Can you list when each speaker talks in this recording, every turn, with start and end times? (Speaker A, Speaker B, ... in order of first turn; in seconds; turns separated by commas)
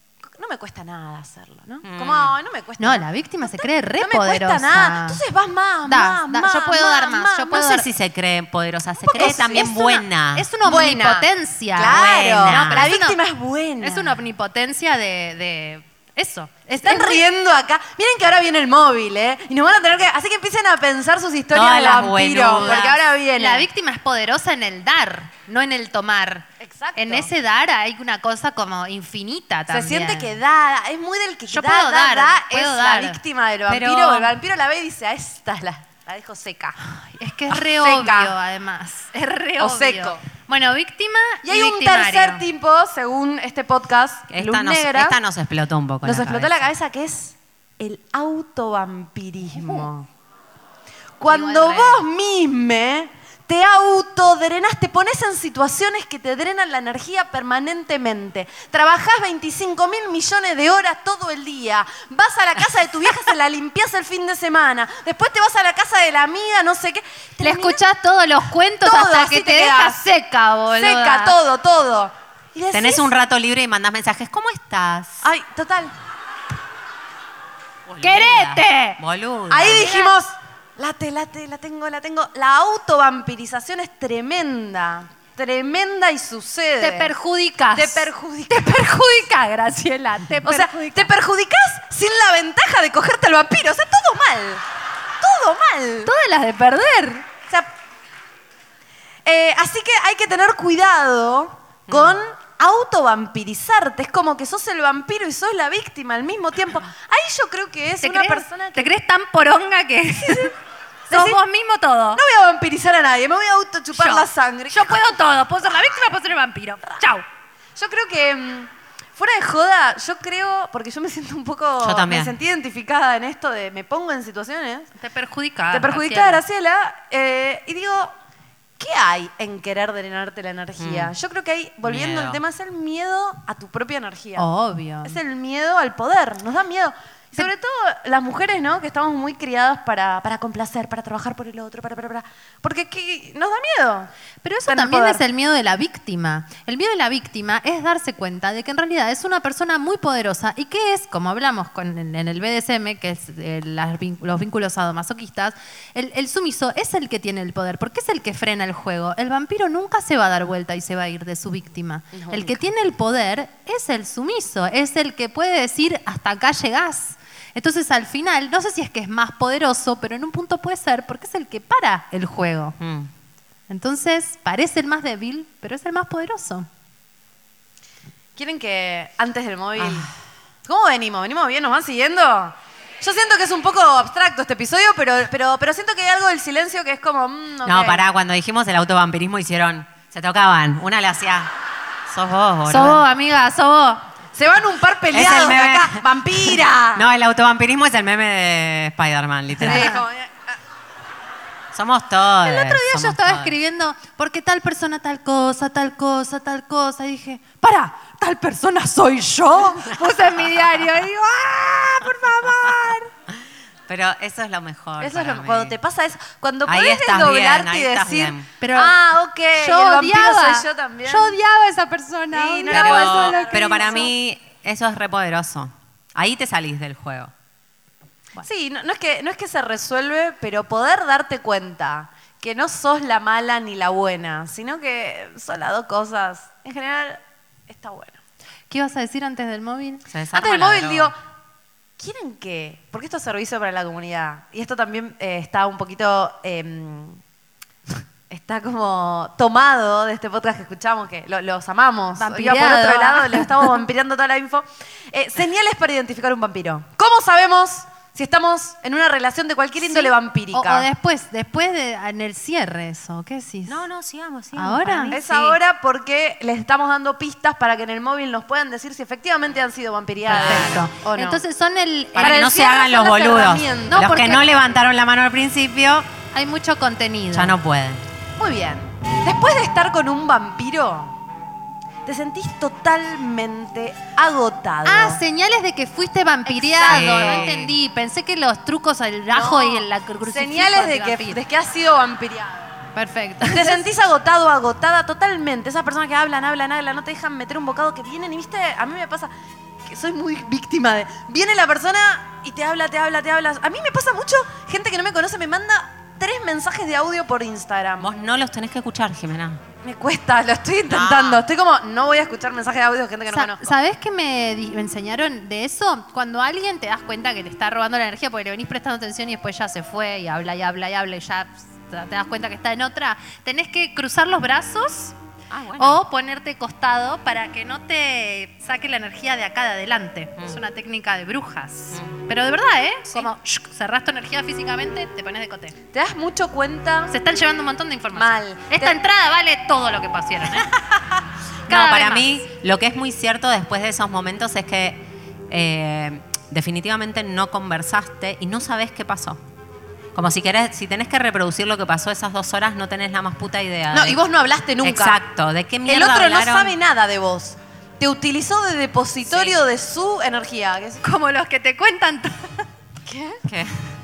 Speaker A: 0.3-7.6, Speaker B: 1.8-2.4, Speaker C: 2.8-5.2, Speaker C: 5.9-7.9, Speaker B: 7.5-10.5, Speaker A: 9.1-9.7, Speaker C: 9.1-13.2, Speaker A: 10.6-14.2, Speaker B: 11.8-12.9, Speaker C: 13.8-17.2, Speaker A: 16.8-23.7, Speaker B: 21.5-23.0, Speaker C: 23.4-26.4, Speaker A: 26.6-27.3, Speaker C: 27.0-30.3, Speaker A: 29.7-36.8, Speaker C: 31.5-33.2, Speaker B: 33.7-34.3, Speaker C: 36.9-42.4, Speaker A: 37.5-38.3, Speaker A: 39.6-40.2, Speaker A: 41.4-45.2, Speaker B: 44.3-46.7, Speaker A: 46.0-50.1, Speaker A: 51.2-67.8, Speaker C: 51.3-52.0, Speaker C: 67.4-71.3, Speaker A: 68.8-70.0, Speaker A: 70.7-73.1, Speaker B: 72.7-75.2, Speaker A: 75.2-75.9, Speaker B: 77.9-80.0, Speaker C: 78.0-79.0, Speaker A: 79.5-87.1, Speaker C: 79.7-80.1, Speaker C: 86.8-91.1, Speaker A: 87.7-88.9, Speaker A: 90.4-94.6, Speaker A: 95.2-96.1, Speaker C: 96.1-97.2, Speaker A: 99.3-108.9, Speaker B: 101.9-102.2, Speaker C: 108.0-110.5, Speaker A: 110.2-110.5, Speaker A: 111.1-111.4, Speaker C: 111.1-112.2, Speaker A: 112.2-115.0, Speaker C: 114.0-117.2, Speaker A: 117.8-124.9, Speaker B: 121.8-122.4, Speaker C: 125.0-126.4, Speaker A: 125.7-128.1, Speaker A: 128.8-134.5, Speaker B: 130.8-131.1, Speaker B: 131.8-132.4, Speaker C: 134.4-135.2, Speaker A: 135.0-144.1, Speaker C: 144.4-172.8, Speaker A: 144.7-145.2, Speaker A: 162.1-162.6, Speaker B: 172.8-173.1, Speaker C: 173.7-176.7, Speaker A: 178.4-180.1, Speaker B: 179.8-180.1, Speaker A: 180.7-188.0, Speaker B: 187.6-191.5, Speaker B: 192.1-193.0, Speaker C: 192.7-194.0, Speaker A: 194.3-197.1, Speaker B: 195.1-199.9, Speaker A: 199.6-200.6, Speaker C: 199.7-200.0, Speaker B: 201.7-203.5, Speaker C: 202.4-213.1, Speaker B: 213.9-215.8, Speaker A: 215.0-221.4, Speaker B: 216.7-218.5, Speaker C: 218.6-218.9, Speaker C: 219.6-224.1, Speaker A: 222.3-224.1, Speaker B: 222.7-227.3, Speaker A: 228.4-238.2, Speaker C: 238.7-240.0, Speaker B: 240.1-241.1, Speaker A: 240.3-241.2, Speaker A: 242.0-247.2, Speaker A: 248.3-260.9, Speaker C: 252.2-253.6, Speaker C: 259.8-263.8, Speaker B: 263.7-265.6, Speaker C: 264.5-265.1, Speaker A: 265.1-271.4, Speaker B: 270.3-270.9, Speaker C: 270.3-272.5, Speaker B: 272.1-276.1, Speaker A: 272.2-274.1, Speaker C: 273.9-274.4, Speaker C: 276.3-277.5, Speaker B: 277.3-278.0, Speaker A: 278.4-281.1, Speaker A: 282.1-285.2, Speaker C: 284.9-291.4, Speaker A: 286.5-287.5, Speaker B: 286.9-287.7, Speaker A: 289.3-292.8, Speaker C: 292.9-293.8, Speaker A: 293.4-299.3, Speaker A: 299.9-308.1, Speaker B: 308.0-309.6, Speaker A: 309.8-313.7, Speaker B: 310.9-311.4, Speaker C: 313.3-325.1, Speaker B: 325.5-326.0, Speaker C: 325.8-335.8, Speaker B: 331.9-332.2, Speaker A: 335.9-337.1, Speaker C: 337.1-340.7, Speaker A: 338.1-339.0, Speaker C: 341.7-342.4, Speaker B: 341.7-349.4, Speaker B: 350.1-354.2, Speaker A: 353.9-355.2, Speaker B: 354.8-356.7, Speaker A: 355.9-361.0, Speaker B: 359.3-359.6, Speaker C: 361.0-362.6, Speaker A: 363.1-363.4, Speaker B: 363.4-363.9